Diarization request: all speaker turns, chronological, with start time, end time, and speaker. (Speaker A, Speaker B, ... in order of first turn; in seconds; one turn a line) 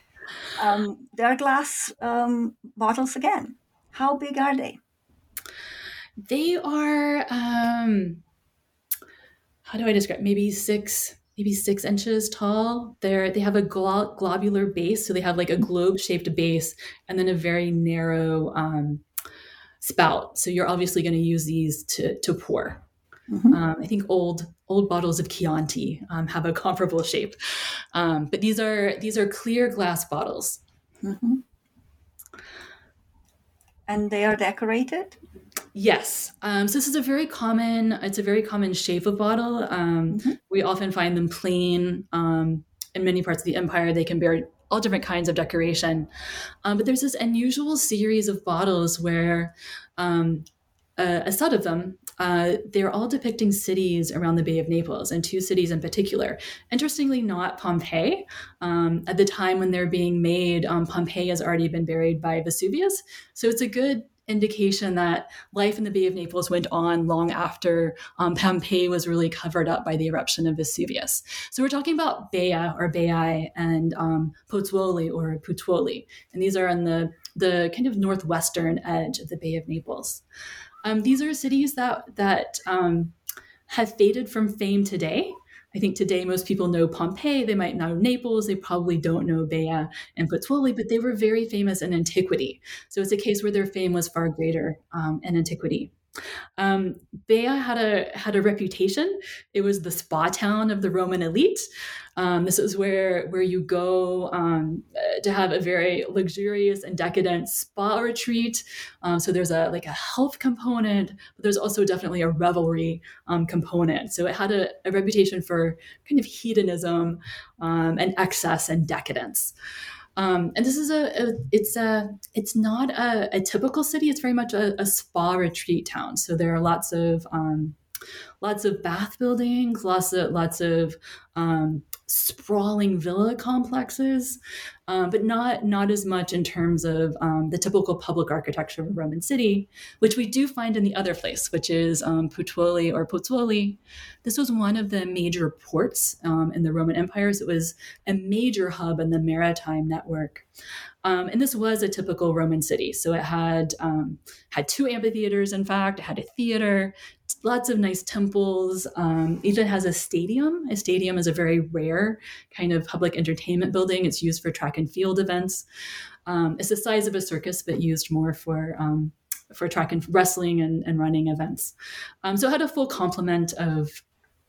Speaker A: 0.6-4.8
Speaker B: 6.2-8.2
Speaker B: 9.7-19.0
Speaker B: 19.8-22.8
Speaker A: 23.3-23.6
Speaker B: 23.5-27.4
Speaker B: 27.9-30.6
Speaker A: 31.0-31.4
Speaker A: 33.9-35.2
Speaker B: 35.7-46.1
Speaker A: 40.1-40.4
Speaker B: 46.6-50.5
Speaker B: 51.0-80.2
Speaker B: 80.8-83.1
Speaker B: 83.7-95.9
Speaker B: 96.6-101.6
Speaker B: 102.2-119.5
Speaker B: 120.2-127.8
Speaker B: 128.4-150.4
Speaker B: 151.0-165.6
Speaker B: 166.2-174.0